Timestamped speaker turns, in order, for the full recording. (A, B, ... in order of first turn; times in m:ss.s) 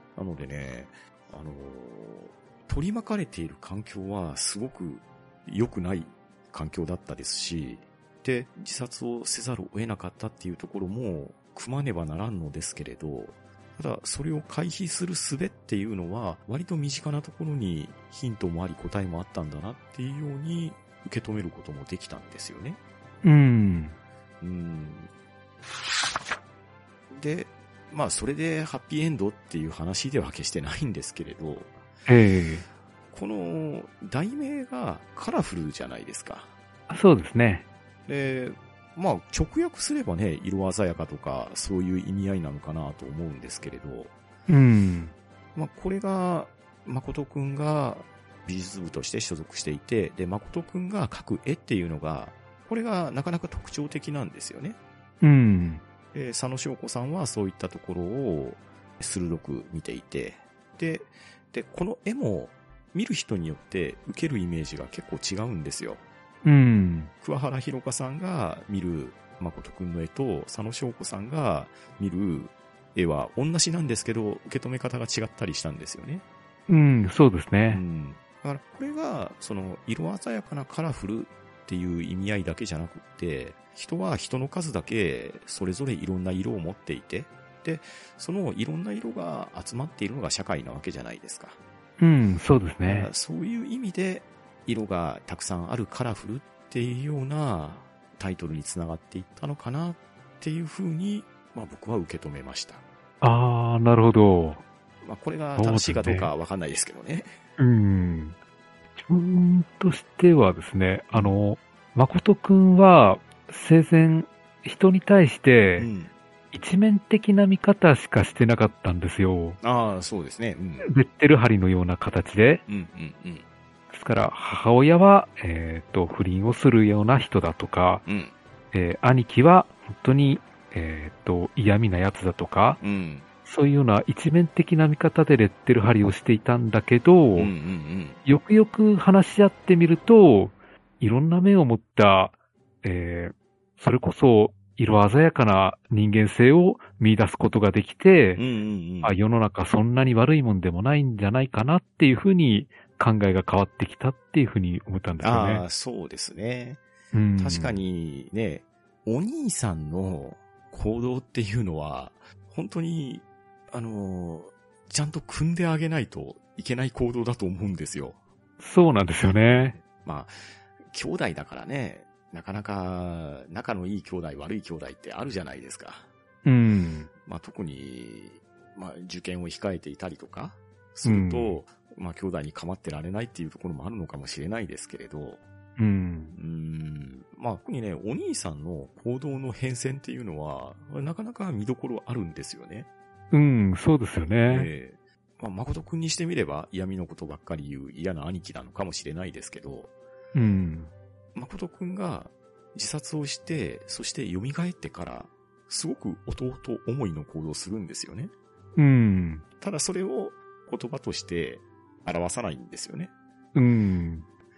0:00.2-0:22.8 A
0:23.2-0:24.0 B
0:24.4-0:25.1 A
0:27.1-0:31.7 A
0:32.1-0:32.6 B
0:33.1-0:36.5 A
0:36.9-0:37.7 B
0:38.1-0:44.1 A
0:44.5-0:45.1 B
0:45.6-0:54.8 A
0:55.2-0:55.8 B
0:56.1-1:06.0 A
1:06.4-1:07.1 B
1:07.2-1:16.2 A
1:16.7-1:17.8 B
1:17.7-1:31.6 A
1:32.0-1:33.1 B
1:32.9-1:42.8 A
1:43.2-1:44.6 B
1:45.0-1:47.4 A
1:45.6-1:46.3 B
1:47.6-1:48.4 B
1:49.0-1:55.9 B
1:51.1-1:51.4 A
1:55.8-1:56.1 A
1:56.5-1:59.6 B
1:59.6-2:00.9 A
2:00.8-2:02.6 B
2:02.7-2:03.5 A
2:03.9-2:08.1 B
2:08.1-2:08.4 A
2:08.7-2:12.8 B
2:12.8-2:13.3 A
2:13.4-2:17.5 B
2:17.4-2:18.2 A
2:18.2-2:28.4 B
2:28.4-2:29.2 A
2:29.0-2:35.7 B
2:35.2-2:36.8 A
2:37.1-2:37.8 B
2:37.4-2:48.2 A
2:48.6-2:49.8 B
2:49.4-2:50.4 A
2:50.9-2:56.1 A
2:56.4-2:57.1 B
2:57.2-3:05.4 A
3:01.0-3:01.6 B
3:05.8-3:06.4 B
3:06.4-3:12.9 A
3:13.3-3:14.7 B
3:14.5-3:19.9 A
3:20.3-3:20.9 B
3:21.4-3:28.3 A
3:28.8-3:29.4 B
3:29.6-3:33.1 A
3:33.6-3:34.3 B